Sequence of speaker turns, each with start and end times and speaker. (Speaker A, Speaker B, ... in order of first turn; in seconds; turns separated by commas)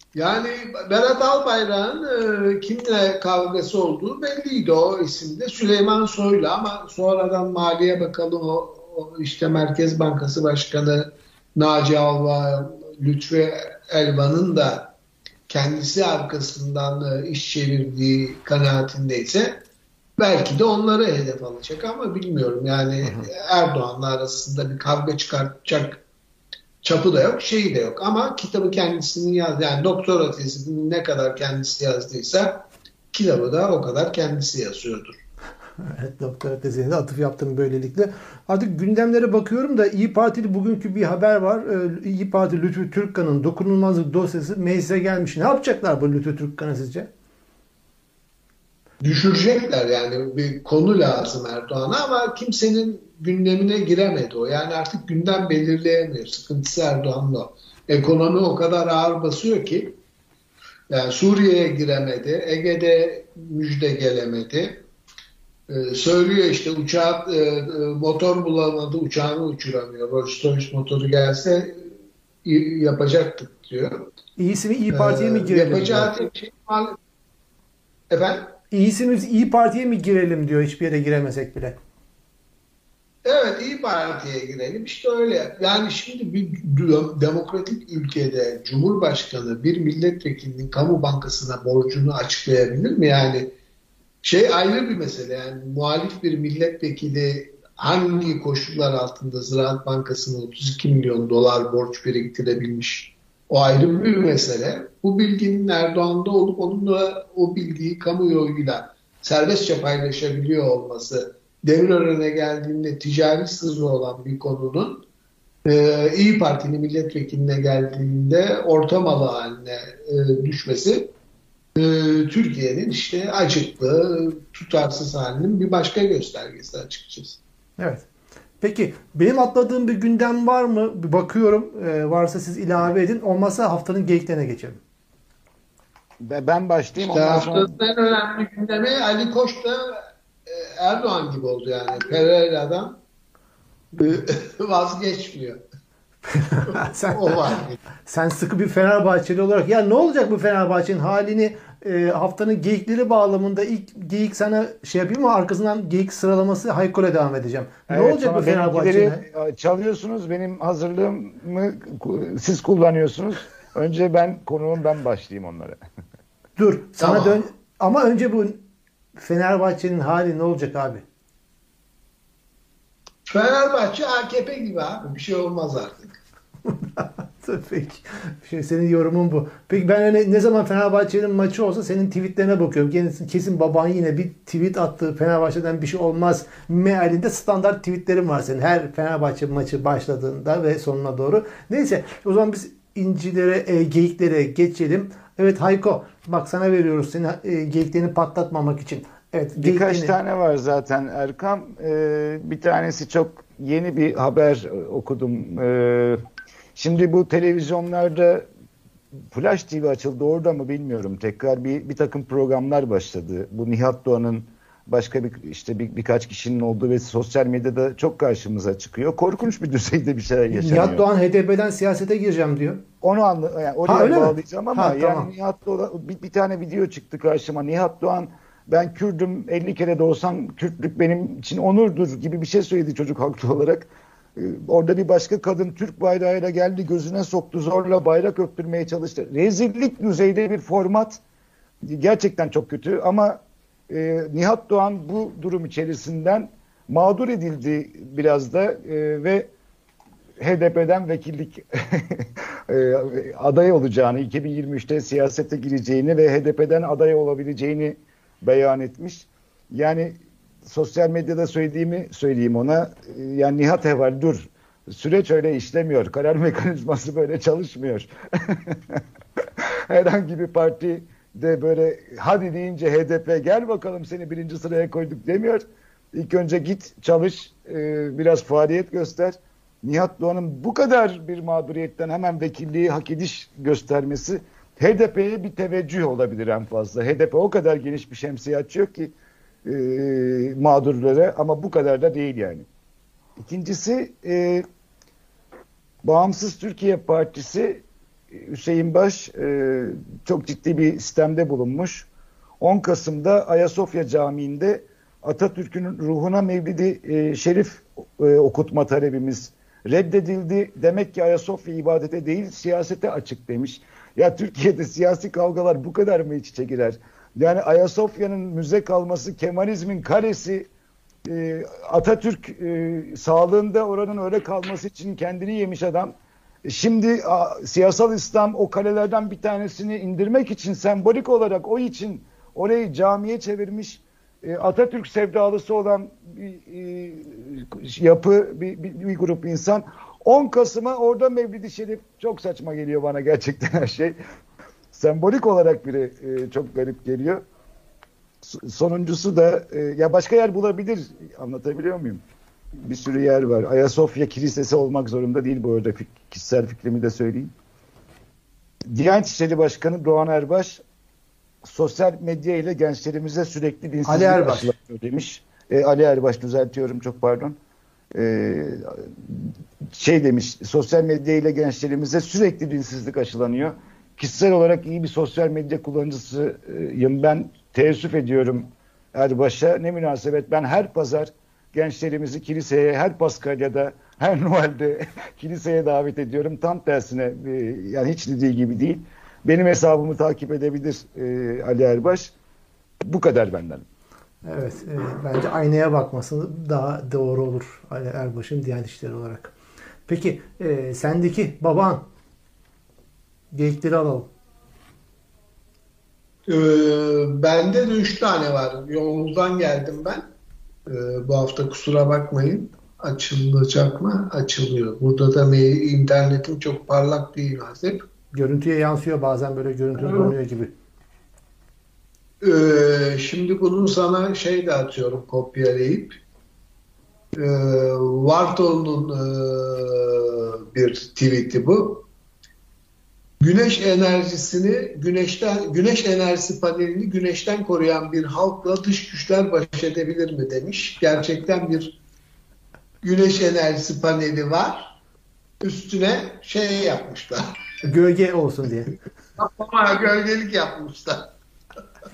Speaker A: 0.1-14.9, Speaker A: 15.5-19.6, Speaker A: 20.2-26.0, Speaker B: 23.0-23.3, Speaker A: 26.8-35.2, Speaker B: 35.8-47.1, Speaker A: 49.0-60.0, Speaker A: 60.9-64.8, Speaker A: 65.7-71.9, Speaker A: 72.5-74.1, Speaker B: 74.4-76.1, Speaker A: 74.9-77.0, Speaker A: 78.1-78.6, Speaker B: 78.7-81.8, Speaker A: 83.2-93.5, Speaker A: 94.2-115.0, Speaker A: 115.7-121.1, Speaker A: 121.8-127.4, Speaker B: 127.8-128.1, Speaker B: 128.6-134.8, Speaker C: 136.2-137.7, Speaker A: 137.0-143.0, Speaker A: 144.0-145.6, Speaker B: 146.3-147.4, Speaker A: 146.7-147.8, Speaker B: 148.0-159.2, Speaker C: 157.9-165.8, Speaker B: 166.6-168.7, Speaker A: 167.0-167.4, Speaker B: 169.2-171.0, Speaker A: 173.3-176.2, Speaker B: 176.7-200.2, Speaker C: 199.6-206.2, Speaker C: 206.8-208.5, Speaker C: 209.3-221.1, Speaker B: 220.5-222.8, Speaker C: 223.0-241.2, Speaker B: 223.8-225.3, Speaker C: 241.9-249.5, Speaker C: 250.4-269.0, Speaker C: 269.9-289.1, Speaker C: 289.6-292.7, Speaker C: 293.4-294.7, Speaker C: 296.0-302.1, Speaker C: 302.6-320.7, Speaker C: 321.3-344.2, Speaker C: 344.9-347.4, Speaker C: 348.4-352.2, Speaker C: 352.8-357.5, Speaker C: 358.9-360.8, Speaker C: 361.6-367.6, Speaker B: 364.1-364.7, Speaker C: 368.1-392.3, Speaker C: 393.0-393.8, Speaker B: 394.4-399.5, Speaker B: 400.1-402.0, Speaker B: 403.5-404.3, Speaker A: 406.5-410.3, Speaker A: 410.9-418.0, Speaker B: 418.3-420.7, Speaker A: 420.0-420.3, Speaker A: 422.4-426.2, Speaker A: 427.4-432.1, Speaker A: 433.4-442.0, Speaker A: 443.0-444.9, Speaker A: 445.6-447.8, Speaker B: 447.9-448.9, Speaker A: 449.4-451.3